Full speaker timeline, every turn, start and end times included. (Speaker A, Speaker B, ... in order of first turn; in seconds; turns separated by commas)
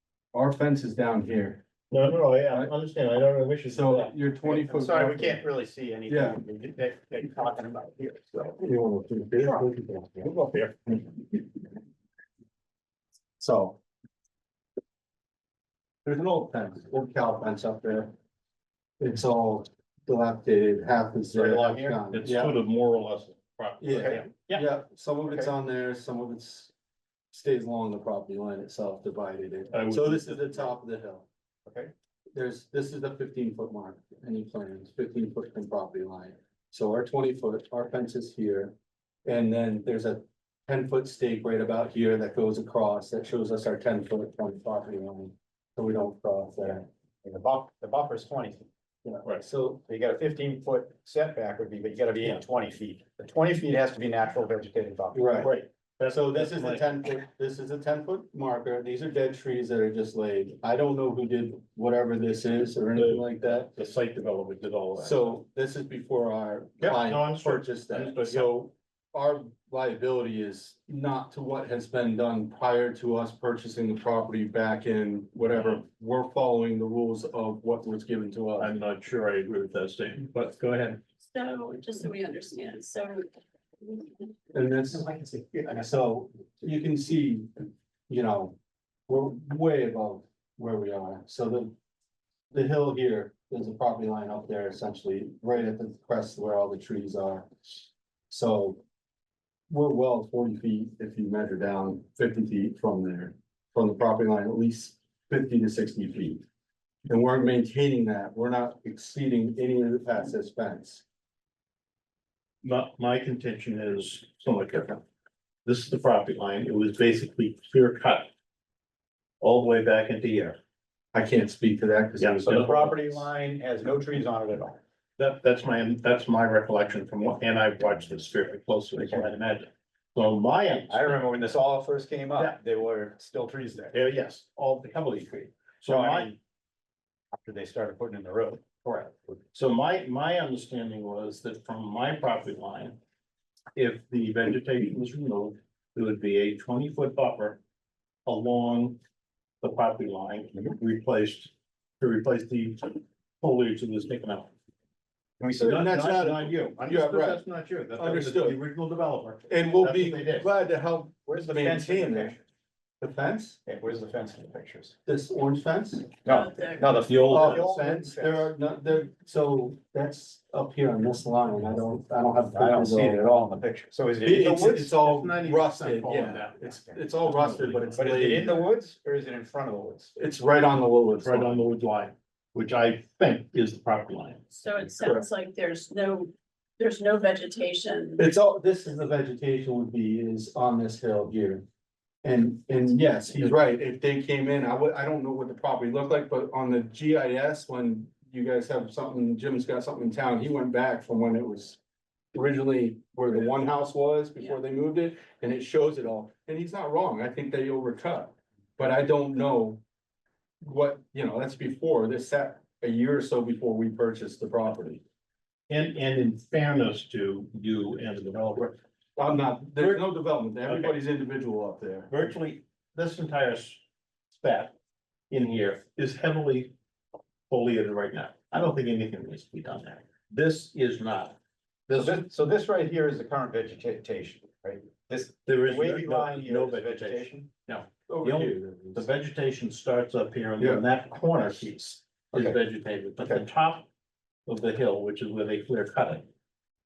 Speaker A: 0.3-1.6, Speaker B: 1.9-4.2, Speaker A: 3.7-5.4, Speaker C: 4.4-8.5, Speaker A: 6.1-6.4, Speaker A: 8.6-10.3, Speaker B: 10.2-10.8, Speaker A: 13.4-13.8, Speaker A: 16.0-18.1, Speaker A: 19.0-22.6, Speaker C: 21.3-22.0, Speaker B: 22.1-24.6, Speaker A: 23.8-26.7, Speaker C: 23.9-24.2, Speaker A: 27.3-31.3, Speaker B: 29.7-30.7, Speaker C: 31.7-31.9, Speaker A: 32.3-46.9, Speaker C: 46.6-48.7, Speaker A: 49.0-49.8, Speaker C: 49.9-55.5, Speaker A: 55.1-55.5, Speaker B: 55.4-56.9, Speaker A: 56.1-63.7, Speaker B: 63.0-65.4, Speaker A: 65.0-78.7, Speaker B: 66.8-68.5, Speaker B: 78.6-81.0, Speaker D: 81.3-83.3, Speaker D: 83.8-84.3, Speaker A: 84.5-85.1, Speaker C: 85.2-85.7, Speaker A: 85.7-88.6, Speaker A: 89.1-91.7, Speaker A: 92.5-97.5, Speaker A: 98.3-98.8, Speaker A: 99.7-106.5, Speaker A: 107.1-111.0, Speaker B: 112.6-115.0, Speaker B: 115.7-118.3, Speaker B: 119.4-120.6, Speaker A: 121.1-123.0, Speaker B: 122.2-123.0, Speaker C: 122.4-124.8, Speaker B: 125.2-131.2, Speaker C: 129.0-129.3, Speaker C: 130.9-134.0, Speaker B: 133.9-136.3, Speaker C: 135.9-136.4, Speaker C: 137.3-138.7, Speaker B: 138.8-143.0, Speaker B: 143.8-147.6, Speaker B: 148.3-149.0, Speaker B: 149.6-154.5, Speaker C: 155.4-155.8, Speaker B: 155.6-160.5, Speaker A: 155.7-157.4, Speaker A: 158.0-158.6, Speaker A: 159.5-162.4, Speaker C: 161.3-162.4, Speaker A: 163.0-163.6, Speaker C: 163.7-165.0, Speaker A: 165.1-166.1, Speaker C: 166.2-168.5, Speaker D: 166.3-167.0, Speaker B: 167.1-167.7, Speaker A: 167.3-173.2, Speaker C: 172.5-175.0, Speaker A: 174.2-178.7, Speaker B: 174.3-178.5, Speaker C: 178.0-180.2, Speaker A: 180.2-181.7, Speaker B: 181.2-184.4, Speaker D: 184.5-188.2, Speaker A: 188.2-191.6, Speaker A: 192.2-201.8, Speaker A: 202.3-209.8, Speaker A: 210.6-215.0, Speaker B: 215.7-218.8, Speaker A: 219.2-222.1, Speaker B: 219.8-220.1, Speaker B: 220.7-221.0, Speaker B: 222.1-224.7, Speaker B: 225.3-226.7, Speaker B: 227.5-232.2, Speaker C: 231.9-237.5, Speaker B: 235.5-243.9, Speaker A: 238.1-239.1, Speaker A: 240.6-240.8, Speaker B: 244.5-246.3